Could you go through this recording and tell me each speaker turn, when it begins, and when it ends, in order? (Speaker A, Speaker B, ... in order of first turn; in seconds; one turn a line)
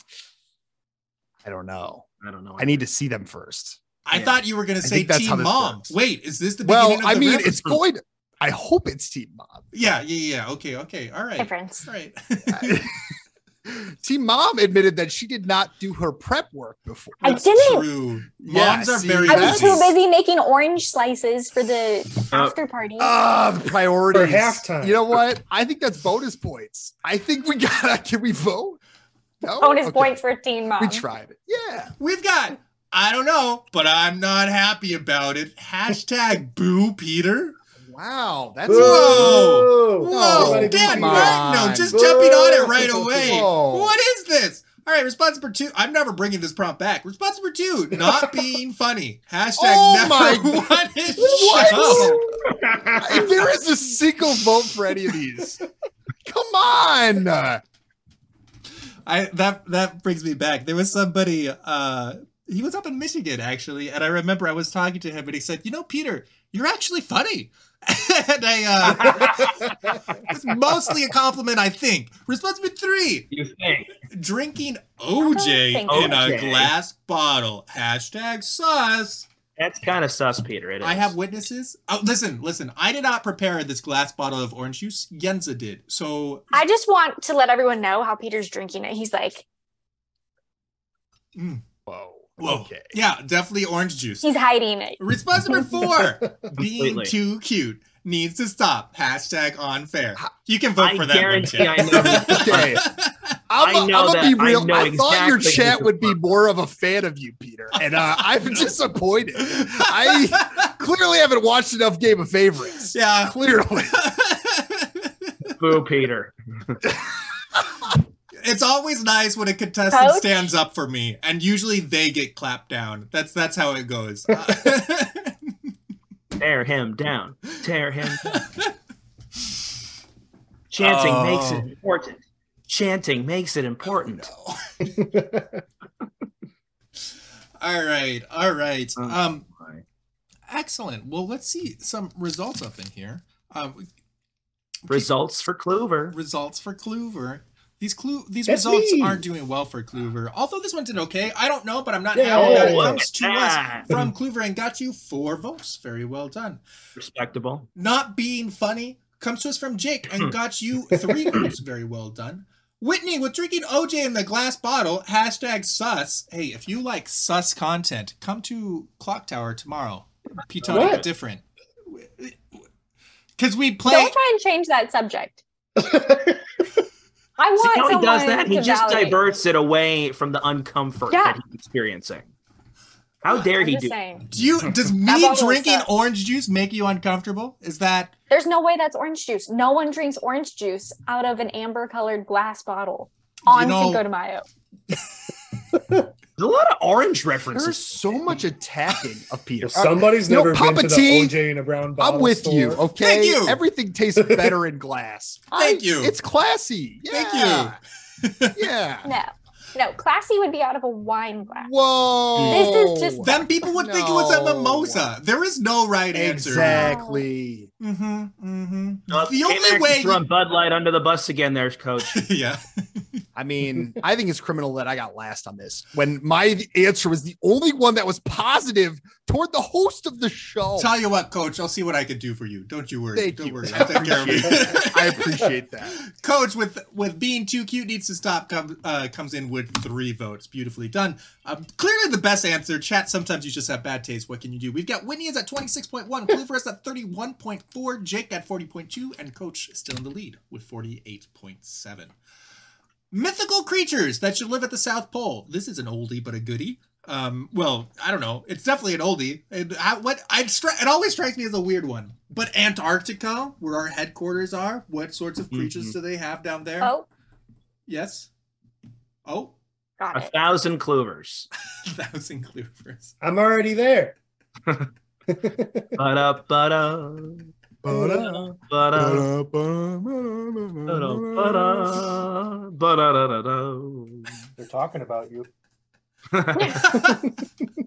Speaker A: 1.4-2.1
Speaker B: 2.2-2.8
Speaker A: 2.6-3.8
Speaker C: 4.0-7.8
Speaker B: 4.1-4.4
Speaker A: 4.8-6.0
Speaker A: 6.6-9.7
Speaker C: 9.7-12.9
Speaker D: 11.4-11.9
Speaker A: 12.4-13.0
Speaker A: 13.7-17.5
Speaker C: 17.2-19.9
Speaker D: 17.2-17.9
Speaker A: 18.4-19.9
Speaker D: 19.3-23.1
Speaker B: 22.3-22.6
Speaker A: 23.0-28.8
Speaker E: 24.1-25.0
Speaker A: 29.4-30.2
Speaker D: 29.6-31.0
Speaker A: 30.8-31.9
Speaker C: 32.0-37.5
Speaker A: 37.8-42.0
Speaker E: 38.6-43.3
Speaker C: 38.7-52.2
Speaker A: 43.1-44.0
Speaker A: 49.6-52.2
Speaker E: 51.7-52.2
Speaker B: 52.5-53.4
Speaker A: 53.0-55.6
Speaker A: 56.2-57.6
Speaker C: 59.0-69.5
Speaker B: 68.8-69.6
Speaker E: 69.2-69.9
Speaker C: 70.2-73.3
Speaker B: 73.3-73.9
Speaker C: 74.1-79.2
Speaker D: 75.2-76.3
Speaker B: 75.9-76.7
Speaker B: 79.6-81.1
Speaker C: 80.8-86.5
Speaker D: 86.5-89.4
Speaker C: 91.3-91.6
Speaker A: 91.9-92.9
Speaker C: 92.4-94.3
Speaker D: 94.2-95.0
Speaker C: 95.0-103.1
Speaker B: 96.6-97.1
Speaker B: 100.8-102.8
Speaker A: 102.0-102.9
Speaker A: 103.5-114.0
Speaker B: 103.6-106.1
Speaker C: 108.0-108.7
Speaker C: 109.4-110.7
Speaker C: 112.8-113.4
Speaker C: 113.9-115.5
Speaker B: 115.6-116.8
Speaker C: 118.4-125.5
Speaker D: 119.9-120.5
Speaker B: 126.4-128.4
Speaker C: 128.2-128.7
Speaker B: 130.7-134.3
Speaker C: 130.8-131.7
Speaker C: 133.9-134.6
Speaker E: 134.8-135.6
Speaker C: 137.6-139.4
Speaker B: 139.0-139.8
Speaker C: 140.5-143.8
Speaker B: 144.9-146.2
Speaker C: 146.1-156.6
Speaker E: 148.5-149.2
Speaker E: 152.1-153.0
Speaker B: 152.3-153.9
Speaker B: 156.9-157.7
Speaker C: 157.8-172.4
Speaker B: 170.6-171.1
Speaker E: 170.7-171.0
Speaker C: 173.4-174.2
Speaker D: 173.9-175.4
Speaker E: 175.8-176.4
Speaker D: 177.4-179.2
Speaker B: 177.6-182.3
Speaker D: 181.1-181.4
Speaker B: 183.2-183.9
Speaker D: 183.3-184.3
Speaker C: 184.3-188.1
Speaker D: 185.0-185.9
Speaker D: 188.3-194.4
Speaker C: 193.4-194.0
Speaker E: 195.7-196.1
Speaker B: 196.4-198.2
Speaker A: 197.5-201.3
Speaker E: 199.6-202.8
Speaker A: 202.0-207.8
Speaker C: 203.0-203.6
Speaker E: 204.2-204.5
Speaker C: 205.5-206.1
Speaker C: 207.1-208.6
Speaker A: 208.5-209.1
Speaker D: 209.0-211.7
Speaker A: 211.6-215.1
Speaker B: 212.4-212.7
Speaker D: 212.5-213.4
Speaker C: 213.2-217.0
Speaker A: 216.1-217.7
Speaker D: 216.6-217.2
Speaker C: 217.8-220.2
Speaker B: 219.1-222.2
Speaker C: 222.0-223.2
Speaker A: 223.3-230.9
Speaker C: 230.8-252.1
Speaker A: 233.1-236.0
Speaker C: 253.1-266.9
Speaker B: 265.5-265.9
Speaker D: 266.8-267.1
Speaker C: 267.9-268.3
Speaker C: 269.2-269.6
Speaker D: 270.0-270.3
Speaker B: 270.1-271.5
Speaker C: 271.9-273.1
Speaker E: 273.2-274.1
Speaker E: 275.3-275.9
Speaker B: 275.9-277.5
Speaker A: 277.8-282.2
Speaker E: 277.9-278.4
Speaker B: 278.5-279.3
Speaker B: 280.9-284.4
Speaker E: 284.6-285.5
Speaker B: 286.3-286.9
Speaker D: 286.5-286.9
Speaker C: 286.8-287.1
Speaker E: 286.9-287.4